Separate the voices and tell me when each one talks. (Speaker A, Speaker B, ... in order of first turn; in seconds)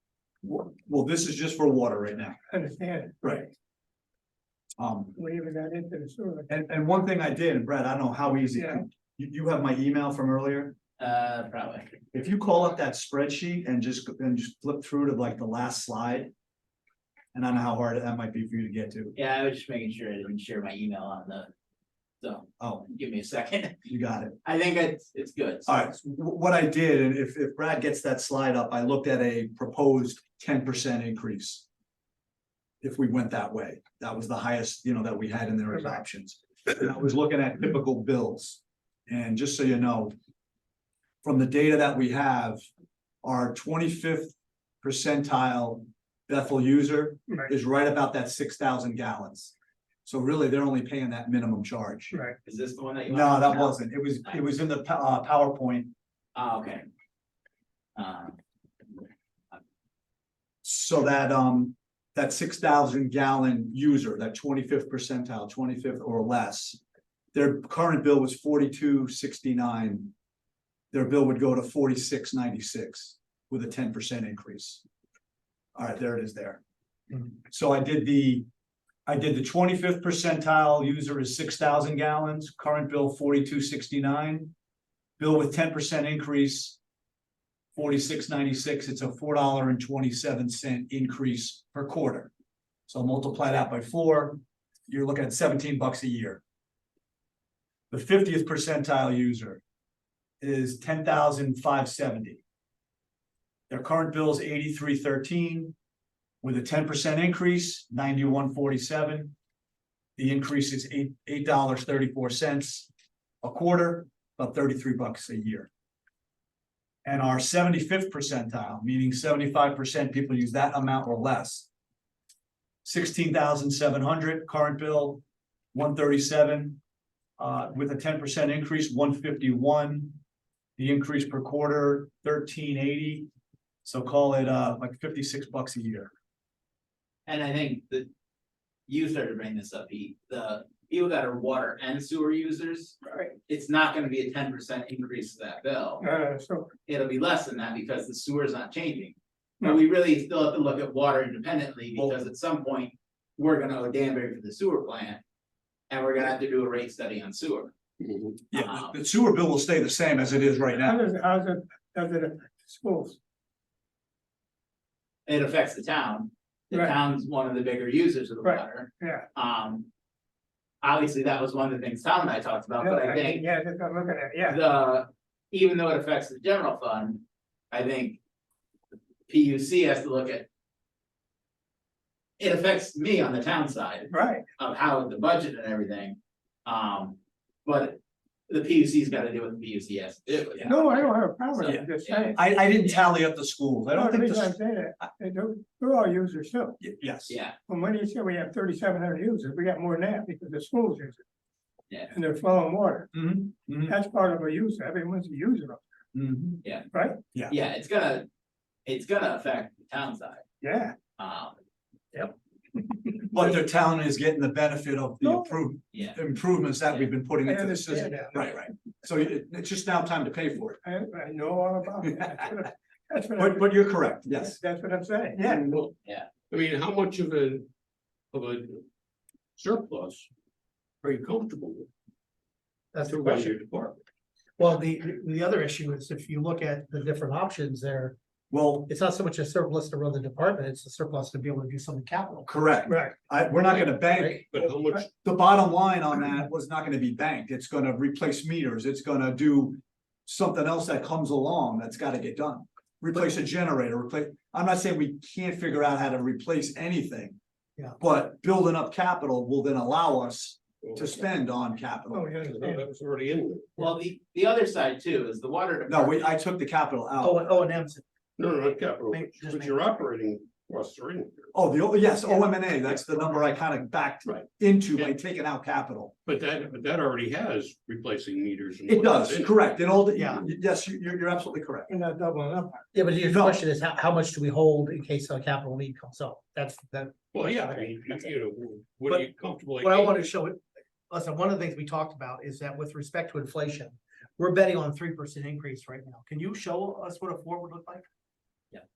Speaker A: 0.4-2.4, 3.2-3.5, 4.8-5.2, 6.5-10.8, 12.1-16.3, 17.3-19.1, 22.6-22.9, 23.9-24.4, 25.7-31.7, 32.8-40.1, 41.2-42.6, 43.2-49.5, 50.0-52.2, 53.1-55.9, 60.6-66.8, 67.3-70.1, 70.9-74.8, 75.8-76.6, 77.5-78.5, 79.1-84.5, 85.2-86.8, 87.8-92.3, 92.9-96.4, 97.9-99.6, 100.4-102.4, 103.7-105.8, 106.4-109.4, 110.2-112.9, 113.4-115.7, 117.0-121.7, 122.8-125.2, 125.7-126.8, 127.4-130.2, 130.8-133.3, 133.8-136.1, 158.5-161.0, 191.7-195.1, 196.8-197.4, 203.1-204.0, 206.1-206.6, 213.3-220.8, 222.0-222.6, 223.4-224.6, 238.5-238.9, 242.5-244.5, 245.2-257.4, 258.0-262.4, 265.9-267.6, 271.5-276.1, 278.9-281.9, 283.3-283.6
Speaker B: 2.5-3.5, 5.2-6.5, 8.5-8.8, 52.1-52.4, 143.1-143.3, 146.0-146.7, 160.8-163.2, 168.4-169.3, 172.8-174.6, 184.1-184.5, 190.6-192.4, 193.9-196.8, 197.7-201.2, 202.1-203.1, 203.9-205.8, 206.9-207.2, 210.6-211.0, 215.2-215.6, 217.4-218.6, 220.8-223.7, 224.3-225.7, 242.9-243.2, 262.1-262.8, 281.9-282.9
Speaker C: 11.0-12.0, 19.2-21.5, 22.2-23.8, 24.4-25.8, 52.5-54.4, 56.4-56.9, 58.0-58.4, 137.3-138.1, 138.9-146.1, 146.9-155.2, 155.9-157.7, 158.5-159.0, 165.3-169.9, 170.8-173.4, 174.5-178.2, 179.3-180.5, 182.4-193.0, 197.3-197.6, 206.6-206.9, 207.5-208.3, 208.9-210.4, 211.2-211.6, 215.9-216.2, 263.8-266.3
Speaker D: 158.0-158.4, 225.4-225.9, 226.5-227.7, 228.3-228.8, 229.6-230.3, 231.0-231.9, 233.1-234.0, 243.9-245.1, 260.8-261.1, 262.4-263.8, 268.4-271.5, 274.3-275.1, 276.2-279.8, 287.3-290.3
Speaker E: 232.9-233.5, 234.6-238.2, 238.9-242.5, 243.7-244.4, 267.2-268.0, 269.1-269.9, 272.3-272.8, 280.1-280.4, 282.9-288.0, 289.1-290.6, 291.1-298.1